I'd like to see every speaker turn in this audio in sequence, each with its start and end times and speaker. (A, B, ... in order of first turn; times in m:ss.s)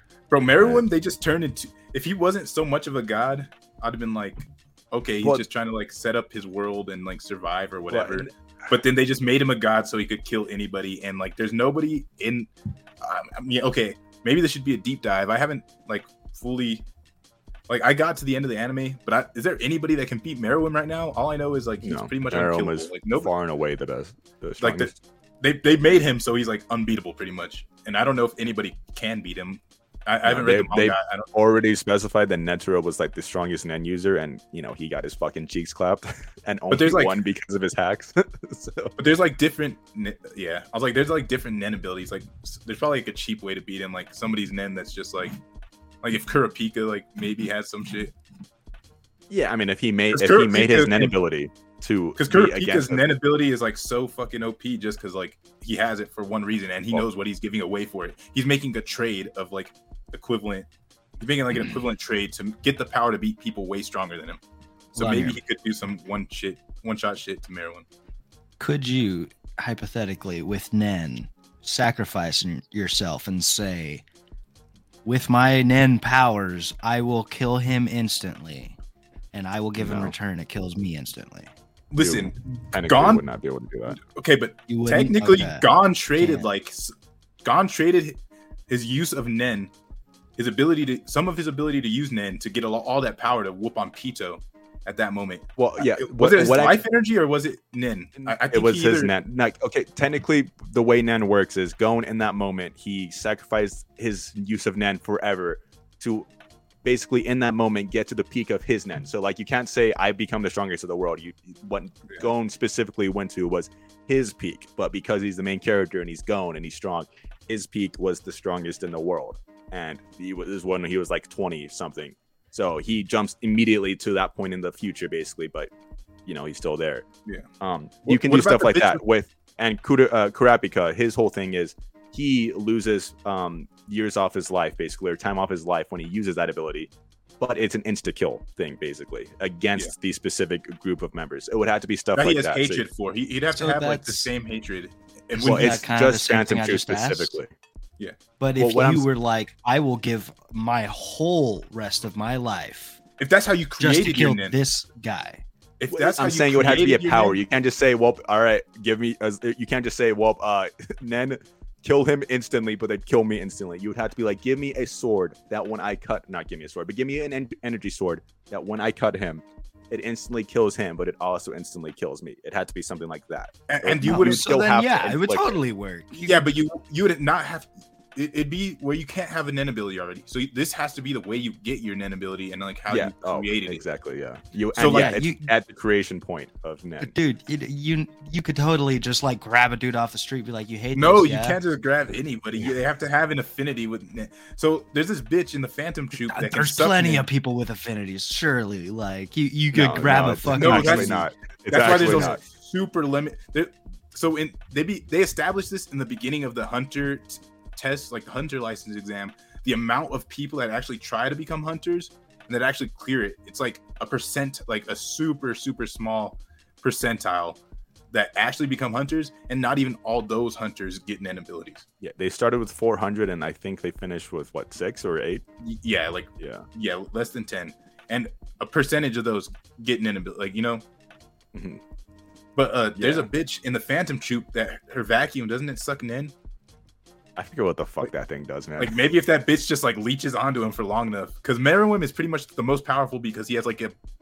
0:00.3-0:12.5 A
0:07.9-0:08.3 B
0:13.0-0:16.8 A
0:17.7-0:23.3 A
0:21.8-0:24.9 B
0:24.6-0:31.3 A
0:30.2-0:38.9 B
0:36.7-0:37.2 A
0:39.0-0:45.4 A
0:46.0-0:48.1 A
0:49.3-0:53.1 B
0:50.1-0:51.2 A
0:52.2-1:00.7 A
1:01.2-1:04.4 A
1:04.9-1:07.8 A
1:05.0-1:05.4 C
1:08.6-1:14.0 C
1:15.0-1:18.8 C
1:19.3-1:21.5 C
1:19.8-1:20.1 B
1:21.9-1:23.2 A
1:22.0-1:24.0 B
1:23.9-1:26.9 A
1:24.7-1:25.6 C
1:26.2-1:26.5 C
1:27.4-1:28.2 A
1:28.7-1:29.7 A
1:30.4-1:39.1 A
1:35.6-1:36.8 B
1:38.2-1:46.3 B
1:46.8-2:05.7 B
2:06.2-2:07.0 B
2:07.6-2:22.9 B
2:08.0-2:09.0 A
2:22.1-2:25.8 A
2:23.5-2:24.3 C
2:25.4-2:27.3 C
2:25.4-2:27.5 B
2:28.4-2:33.0 C
2:28.6-2:29.1 B
2:33.2-2:34.5 A
2:33.8-2:35.4 C
2:35.8-2:37.4 A
2:35.9-2:55.6 B
2:53.7-2:54.5 A
2:54.0-2:56.4 C
2:56.1-3:03.8 A
3:02.9-3:07.1 B
3:04.8-3:05.2 A
3:04.8-3:05.5 C
3:07.0-3:11.6 C
3:10.9-3:17.2 A
3:16.2-3:21.3 C
3:19.7-3:22.4 B
3:20.5-3:37.6 A
3:21.8-3:22.3 C
3:38.1-3:41.8 A
3:42.0-3:45.4 B
3:45.6-3:50.8 A
3:46.4-3:46.6 B
3:51.5-3:51.8 B
3:52.6-3:56.3 A
3:53.0-3:53.3 B
3:57.4-3:59.0 B
3:58.8-4:04.0 A